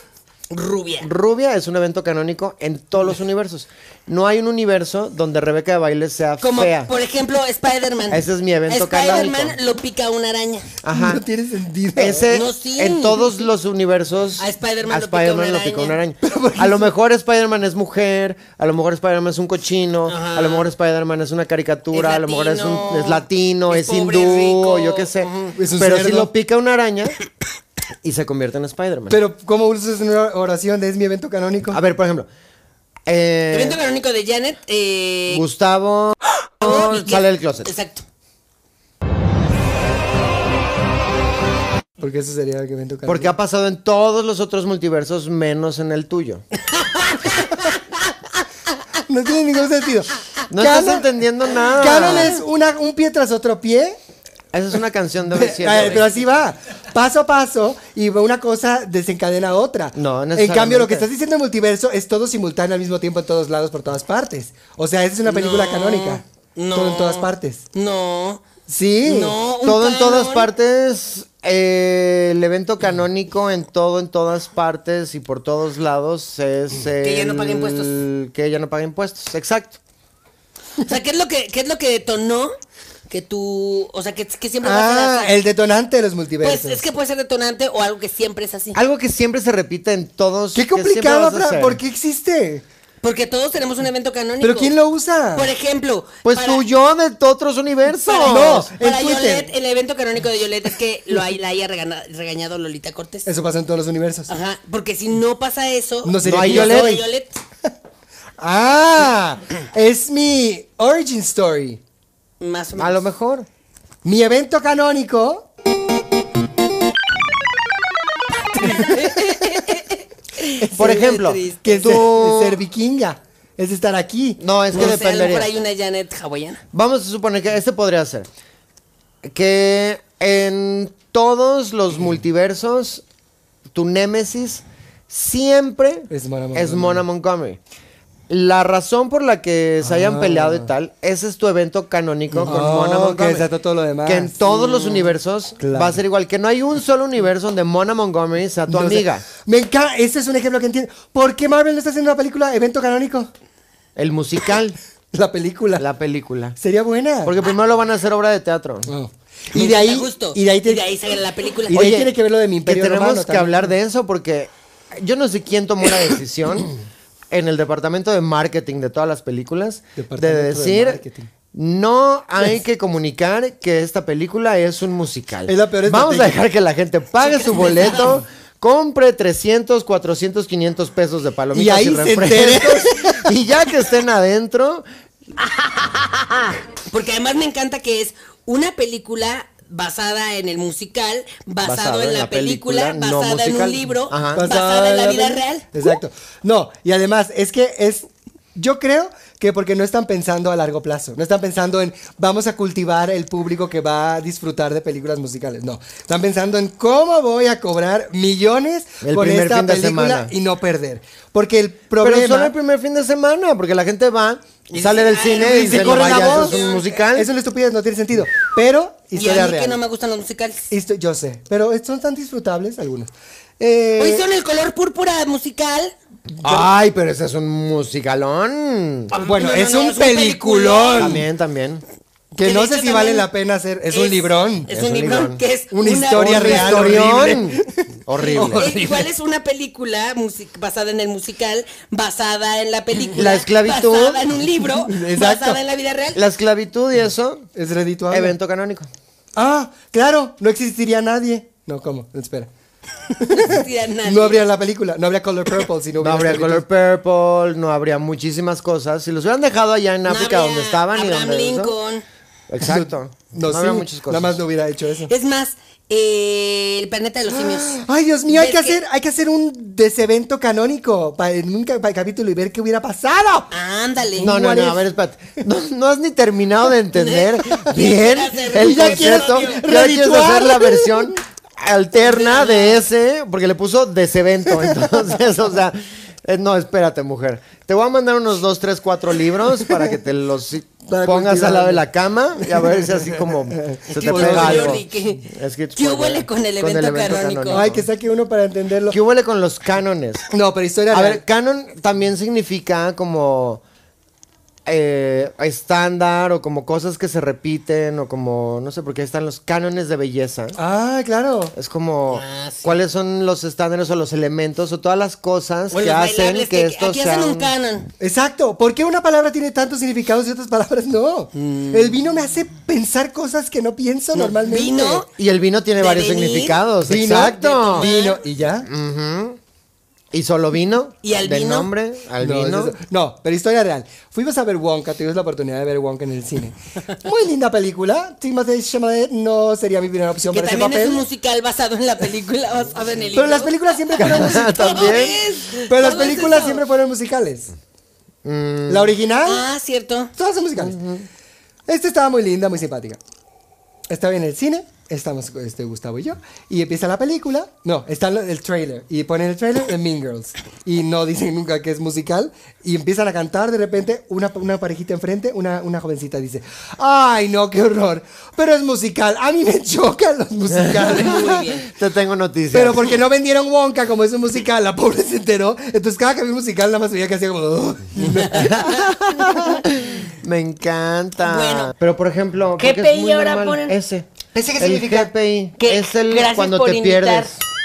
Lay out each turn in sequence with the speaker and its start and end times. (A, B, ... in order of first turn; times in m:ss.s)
0:00.5-0:01.1 A
0:01.0-0:06.9 B
0:06.4-0:10.7 A
0:08.1-0:09.6 B
0:10.8-0:11.2 B
0:10.9-0:12.3 C
0:11.9-0:27.2 B
0:12.3-0:13.3 A
0:14.4-0:16.0 A
0:16.2-0:16.9 C
0:20.1-0:20.7 A
0:21.9-0:25.6 A
0:25.5-0:26.3 C
0:28.0-0:29.2 B
0:29.1-0:31.8 C
0:31.7-0:32.3 B
0:33.1-0:33.8 B
0:33.5-0:35.4 A
0:35.3-0:37.7 B
0:36.6-0:38.0 A
0:42.0-0:43.3 C
0:43.0-0:46.4 B
0:46.8-0:47.7 A
0:49.1-0:51.1 C
0:50.5-0:52.4 B
0:51.6-0:54.0 C
0:54.5-0:56.2 B
0:55.3-1:06.2 C
0:59.9-1:01.1 B
1:05.2-1:08.4 A
1:06.7-1:07.6 C
1:08.7-1:09.4 C
1:09.0-1:10.5 A
1:09.6-1:19.8 B
1:17.0-1:18.0 A
1:20.8-1:22.5 A
1:23.1-1:25.3 A
1:24.6-1:26.8 C
1:26.4-1:28.8 A
1:28.7-1:31.8 B
1:30.5-1:32.6 C
1:33.0-1:34.7 A
1:34.4-1:35.5 C
1:35.3-1:36.6 A
1:36.2-1:38.7 B
1:38.0-1:43.3 A
1:38.2-1:39.5 C
1:43.2-1:44.3 C
1:44.3-1:47.3 A
1:46.0-1:47.0 C
1:46.2-1:47.0 B
1:48.4-1:51.8 C
1:52.4-1:53.0 A
1:52.8-1:53.5 B
1:54.0-1:55.4 C
1:58.5-2:01.8 A
1:58.6-1:59.4 C
2:00.6-2:04.4 C
2:00.8-2:02.6 B
2:04.4-2:05.5 B
2:04.7-2:06.6 A
2:06.7-2:08.3 B
2:09.2-2:13.0 B
2:13.7-2:17.6 B
2:16.1-2:17.0 C
2:18.3-2:23.5 B
2:19.8-2:20.7 C
2:22.3-2:24.3 C
2:24.0-2:29.2 B
2:24.4-2:25.1 A
2:25.6-2:26.0 C
2:28.7-2:33.3 C
2:34.0-2:34.8 B
2:35.1-2:35.8 C
2:35.8-2:36.6 B
2:36.6-2:37.4 C
2:37.2-2:38.9 B
2:38.8-2:40.9 C
2:39.5-2:41.9 A
2:41.7-2:43.7 C
2:41.7-2:42.1 B
2:42.6-2:46.7 B
2:47.3-2:51.0 B
2:50.0-2:51.3 C
2:51.5-3:04.8 B
2:55.5-2:56.4 C
2:57.4-2:58.1 A
3:01.5-3:03.3 C
3:05.4-3:15.7 A
3:11.6-3:14.4 B
3:14.3-3:32.5 C
3:29.0-3:30.3 B
3:32.0-3:37.3 B
3:34.7-3:36.9 A
3:35.3-3:39.8 C
3:39.1-3:40.6 A
3:40.7-3:44.2 C
3:44.0-3:45.9 A
3:46.4-3:49.1 B
3:46.4-3:46.7 C
3:49.1-3:51.2 A
3:49.2-3:51.3 C
3:51.0-3:51.8 B
3:52.3-3:54.7 C
3:52.4-3:53.3 A
3:53.9-3:57.4 A
3:54.7-3:55.4 B
3:55.7-3:59.1 C
3:56.2-3:58.7 B
3:58.2-4:06.2 A
4:03.1-4:04.2 B
4:04.8-4:05.6 C
4:06.1-4:07.5 B
4:07.6-4:08.3 C
4:08.1-4:08.9 B
4:09.4-4:12.5 C
4:13.1-4:14.4 A
4:13.2-4:16.6 C
4:16.0-4:21.7 B
4:20.0-4:22.0 A
4:22.5-4:24.4 B
4:22.6-4:25.1 C
4:25.1-4:28.8 A
4:27.3-4:33.5 C
4:33.5-4:34.3 A
4:34.2-4:34.8 C
4:34.2-4:57.8 B
4:36.9-4:39.6 A
4:38.5-4:41.1 C
4:42.0-4:42.8 A
4:50.9-4:51.8 C
4:52.4-4:54.8 C
4:53.9-4:55.2 A
4:55.8-4:57.7 A
4:57.5-4:59.0 C
4:58.9-5:00.3 B
5:00.3-5:01.2 C
5:00.9-5:03.6 B
5:04.6-5:10.6 B
5:10.6-5:11.5 C
5:11.5-5:17.5 B
5:12.1-5:12.7 A
5:15.7-5:17.9 A
5:18.0-5:25.0 C
5:21.4-5:22.0 A
5:24.1-5:25.1 A
5:25.1-5:27.9 B
5:25.8-5:26.6 A
5:26.8-5:28.7 C
5:27.3-5:28.2 A
5:28.6-5:29.4 B
5:30.1-5:32.8 B
5:31.0-5:31.7 A
5:32.2-5:41.0 C
5:40.3-5:46.6 A
5:43.1-5:44.8 C
5:44.0-5:45.2 B
5:45.6-5:47.5 C
5:48.2-5:48.9 B
5:48.7-5:49.4 C
5:49.2-5:50.1 A
5:50.2-5:50.8 C
5:50.6-5:51.0 B
5:51.7-5:53.0 C
5:53.9-6:11.6 C
6:10.5-6:12.9 B
6:10.8-6:11.7 A
6:12.5-6:19.6 C
6:18.0-6:18.9 A
6:18.3-6:27.4 B
6:21.2-6:21.7 A
6:22.6-6:23.8 A
6:24.3-6:25.1 C
6:25.6-6:27.3 A